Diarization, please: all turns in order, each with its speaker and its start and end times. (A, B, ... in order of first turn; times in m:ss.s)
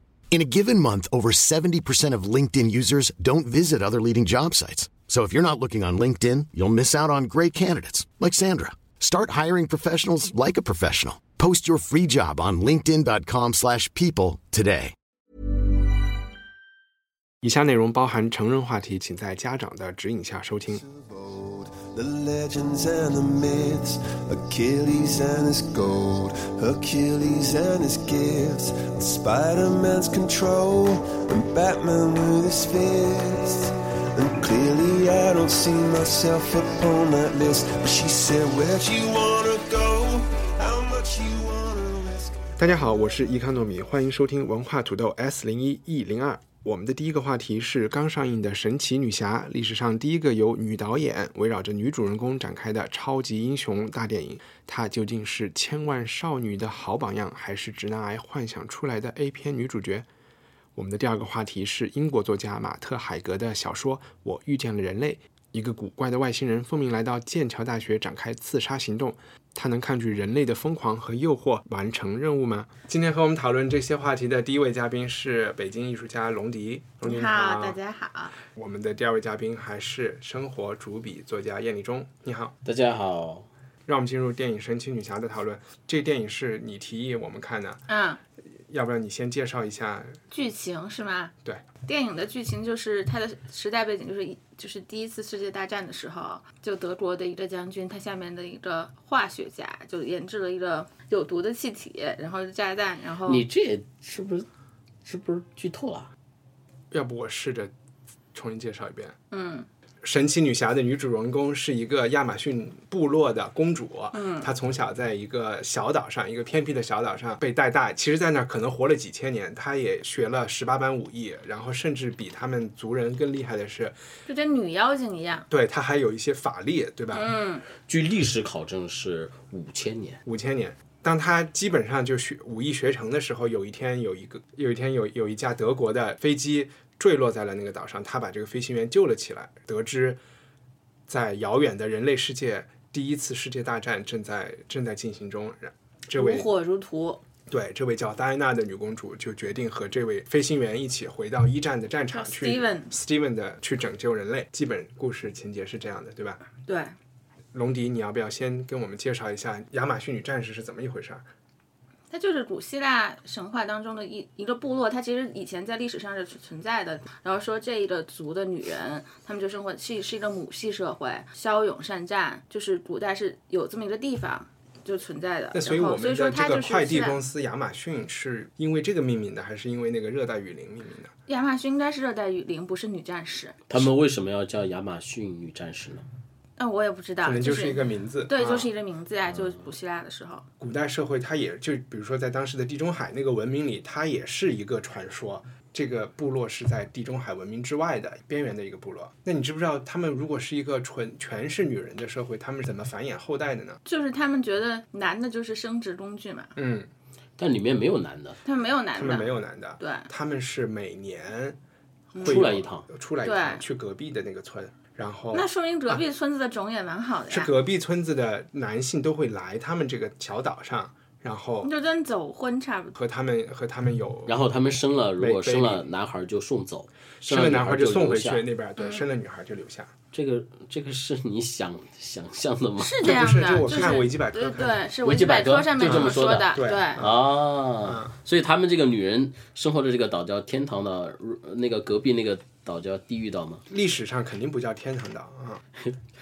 0:00.3-0:14.9 A
0:17.4-0:20.8 B
0:20.7-0:43.2 C
0:42.6-1:00.1 B
1:00.7-1:17.8 B
1:17.0-1:18.4 D
1:18.5-1:22.5 B
1:22.6-1:23.5 E
1:23.9-1:27.8 B
1:27.9-1:28.2 D
1:28.7-1:30.2 B
1:30.3-1:31.3 D
1:31.8-1:43.4 D
1:43.3-1:44.5 E
1:45.0-1:46.1 E
1:46.9-1:47.7 B
1:48.3-1:49.2 B
1:49.3-1:49.7 D
1:50.0-2:04.0 B
1:54.1-1:54.5 D
2:04.3-2:05.4 D
2:05.5-2:07.3 B
2:07.1-2:07.6 D
2:07.9-2:10.2 E
2:10.2-2:20.2 B
2:21.1-2:26.5 B
2:26.1-2:27.2 D
2:27.5-2:36.4 B
2:32.1-2:32.9 D
2:36.6-2:36.9 D
2:37.5-2:41.3 B
2:42.1-2:57.2 D
2:55.5-3:01.1 B
3:01.3-3:03.6 D
3:03.7-3:06.0 E
3:06.6-3:10.4 D
3:07.2-3:08.7 B
3:10.6-3:23.8 B
3:23.8-3:26.5 D
3:26.6-3:26.9 B
3:27.4-3:28.4 E
3:28.4-3:30.1 D
3:28.9-3:31.6 B
3:32.1-3:32.5 D
3:32.1-3:36.0 B
3:32.2-3:32.8 E
3:33.2-3:33.6 D
3:35.3-3:37.5 D
3:37.3-3:41.7 B
3:41.6-3:43.0 D
3:43.0-3:44.4 B
3:44.2-3:48.4 E
3:45.2-3:45.8 B
3:47.2-3:49.9 B
3:50.1-3:53.2 E
3:52.8-3:57.0 D
3:53.0-3:54.8 B
3:55.0-4:03.6 E
3:55.8-3:57.2 B
3:57.8-3:58.1 B
4:03.7-4:05.6 B